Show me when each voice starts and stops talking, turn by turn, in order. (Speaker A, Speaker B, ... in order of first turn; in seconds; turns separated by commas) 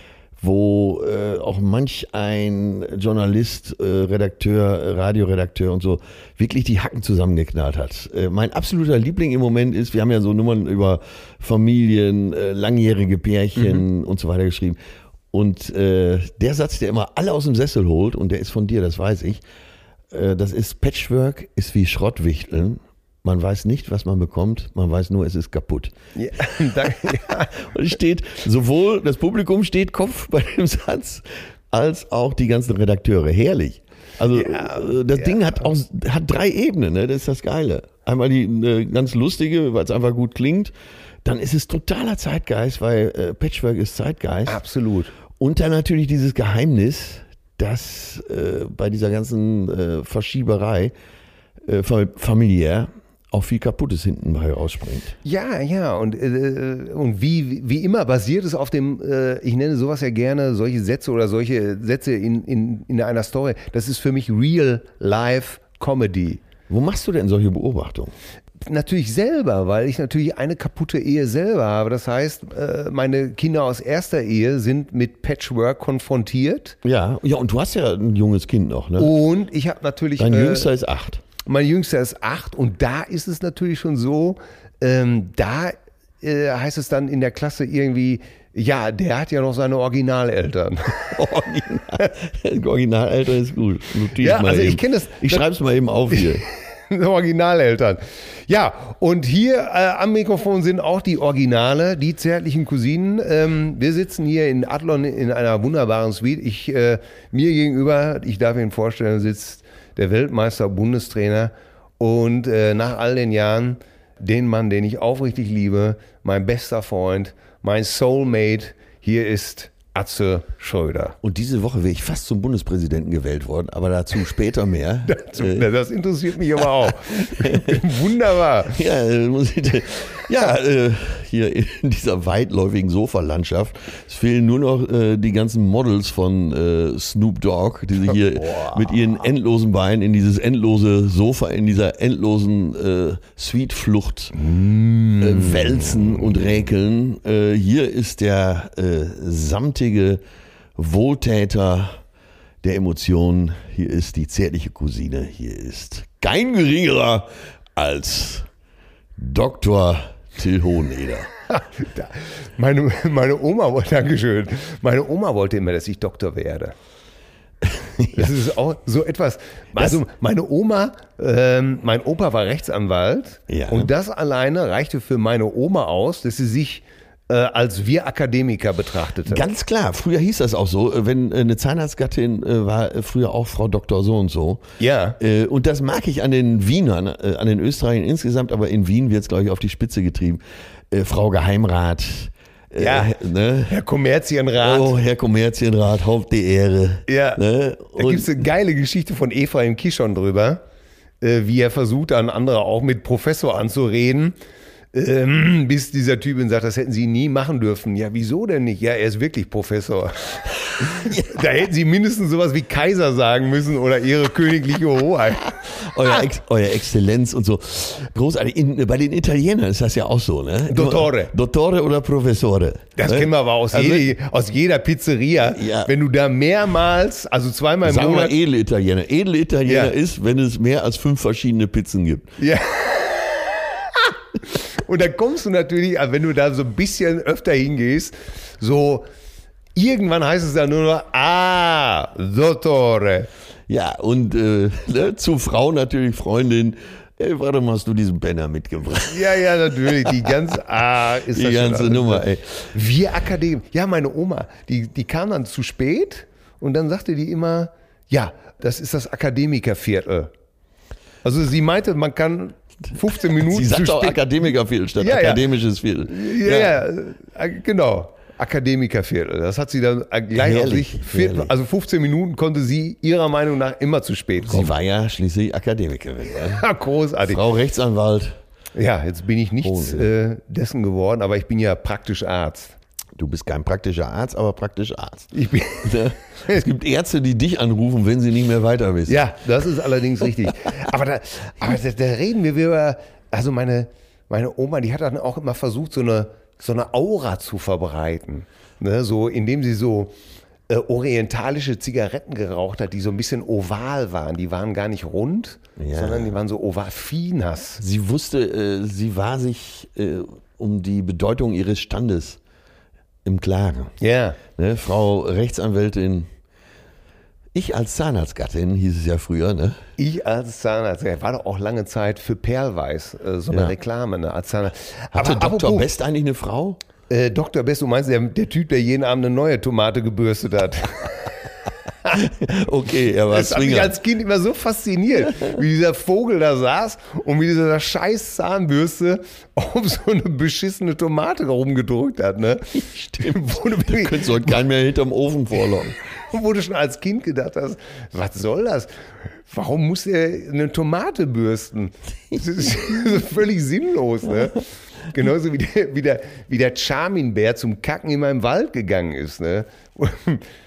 Speaker A: 0.4-14.8, Speaker B: 13.6-13.8, Speaker A: 15.3-19.4, Speaker A: 20.1-25.9, Speaker B: 26.2-27.7, Speaker A: 26.5-44.6, Speaker B: 34.3-35.7, Speaker B: 44.5-45.1, Speaker A: 45.4-50.9, Speaker A: 51.7-55.2, Speaker B: 55.2-66.4, Speaker A: 66.7-68.1, Speaker B: 68.7-76.8, Speaker A: 76.8-79.1, Speaker B: 79.0-80.7, Speaker A: 80.2-81.2, Speaker B: 81.4-91.2, Speaker A: 91.0-96.4, Speaker B: 94.2-95.5, Speaker B: 96.1-121.2, Speaker A: 121.2-125.7, Speaker B: 125.1-128.8, Speaker A: 127.3-127.8, Speaker A: 128.7-144.3, Speaker B: 138.3-139.0, Speaker B: 144.3-146.2, Speaker A: 145.2-150.2, Speaker A: 150.8-152.0, Speaker A: 152.6-158.5, Speaker A: 159.2-161.3, Speaker B: 161.5-166.8, Speaker A: 167.6-168.3, Speaker B: 168.1-179.5, Speaker A: 173.5-173.9, Speaker A: 179.3-184.6, Speaker B: 184.8-185.2, Speaker A: 185.2-193.8, Speaker B: 192.8-193.2, Speaker B: 193.7-194.9, Speaker A: 194.6-198.3, Speaker B: 197.1-197.4, Speaker B: 198.0-200.6, Speaker B: 201.2-204.3, Speaker B: 204.9-216.2, Speaker A: 210.9-211.4, Speaker A: 215.4-224.1, Speaker B: 220.7-221.3, Speaker B: 223.0-228.3, Speaker A: 225.5-225.9, Speaker A: 227.8-232.3, Speaker B: 229.7-229.9, Speaker B: 232.4-239.1, Speaker B: 239.8-243.3, Speaker A: 243.7-250.1, Speaker B: 249.1-260.3, Speaker A: 251.3-252.7, Speaker B: 261.2-264.2, Speaker A: 263.3-266.8, Speaker B: 265.0-265.4, Speaker B: 266.1-274.7, Speaker A: 270.4-271.5, Speaker A: 274.5-276.6, Speaker B: 276.3-277.4, Speaker A: 277.2-278.4, Speaker B: 278.8-282.8, Speaker A: 279.6-280.1, Speaker A: 283.2-285.3, Speaker B: 285.3-286.6, Speaker A: 285.8-289.4, Speaker B: 289.1-300.1, Speaker B: 300.7-307.8, Speaker A: 305.8-306.4, Speaker A: 307.8-312.4, Speaker A: 313.2-313.9, Speaker B: 314.0-314.4, Speaker A: 314.6-316.3, Speaker A: 317.5-319.8, Speaker B: 320.0-325.9, Speaker A: 325.1-326.8, Speaker B: 327.1-331.3, Speaker A: 332.1-333.9, Speaker B: 333.3-344.5, Speaker A: 342.8-346.0, Speaker B: 346.3-348.9, Speaker B: 349.5-360.5, Speaker A: 352.6-353.0